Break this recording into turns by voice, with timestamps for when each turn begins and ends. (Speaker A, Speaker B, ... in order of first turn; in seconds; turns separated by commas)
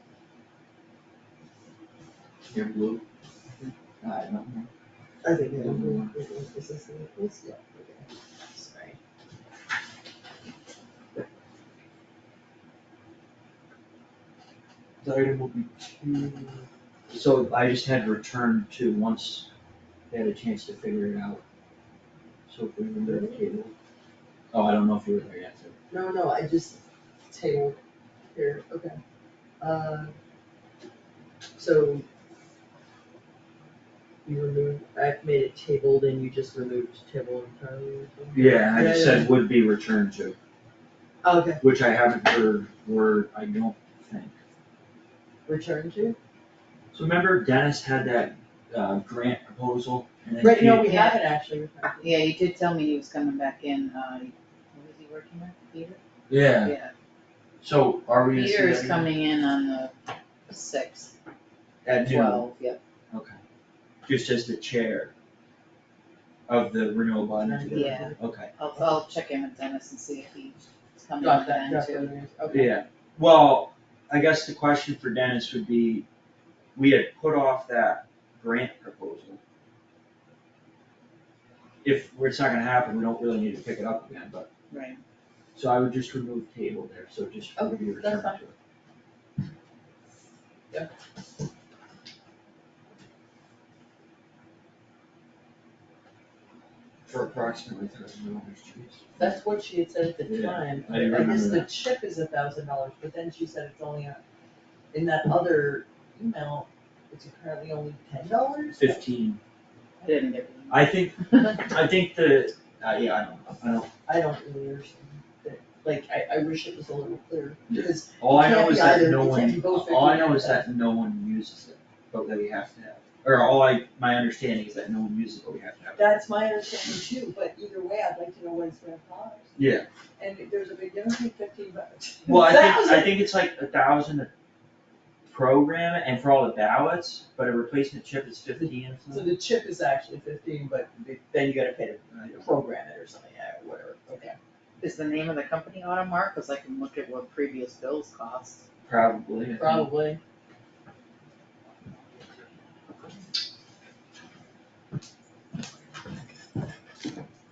Speaker A: 2.5-3.0, Speaker A: 4.0-4.7, Speaker B: 5.2-9.0, Speaker A: 5.5-6.1, Speaker A: 15.0-19.5, Speaker A: 20.1-21.4, Speaker A: 22.5-23.7, Speaker B: 23.0-23.4, Speaker A: 24.5-25.8, Speaker B: 25.9-27.8, Speaker B: 28.3-29.0, Speaker B: 29.6-30.1, Speaker B: 31.6-32.0, Speaker B: 34.2-39.3, Speaker A: 38.3-40.4, Speaker B: 41.2-41.6, Speaker A: 41.6-44.3, Speaker B: 45.5-46.2, Speaker A: 46.9-51.0, Speaker B: 50.4-52.2, Speaker C: 50.4-51.2, Speaker C: 52.0-56.9, Speaker A: 56.3-56.8, Speaker A: 57.6-59.1, Speaker C: 58.3-60.0, Speaker C: 60.5-61.1, Speaker A: 61.9-62.5, Speaker C: 62.0-62.8, Speaker A: 63.1-63.4, Speaker A: 64.1-65.1, Speaker A: 66.5-68.5, Speaker B: 67.4-68.2, Speaker C: 67.7-72.1, Speaker B: 71.2-72.8, Speaker A: 72.5-76.1, Speaker A: 76.8-79.4, Speaker A: 81.8-84.5, Speaker C: 84.7-85.0, Speaker A: 85.5-88.5, Speaker B: 87.5-88.4, Speaker A: 97.1-99.3, Speaker B: 99.2-104.2, Speaker A: 100.3-101.7, Speaker B: 104.9-109.1, Speaker A: 108.8-109.4, Speaker C: 110.0-111.0, Speaker A: 110.7-113.9, Speaker B: 114.1-120.7, Speaker A: 117.7-126.2, Speaker B: 126.0-129.5, Speaker A: 129.6-129.9, Speaker B: 130.2-133.2, Speaker A: 132.3-134.3, Speaker A: 135.3-139.4, Speaker B: 139.1-144.4, Speaker A: 142.1-142.5, Speaker C: 144.8-148.6, Speaker A: 148.9-149.9, Speaker B: 149.6-150.2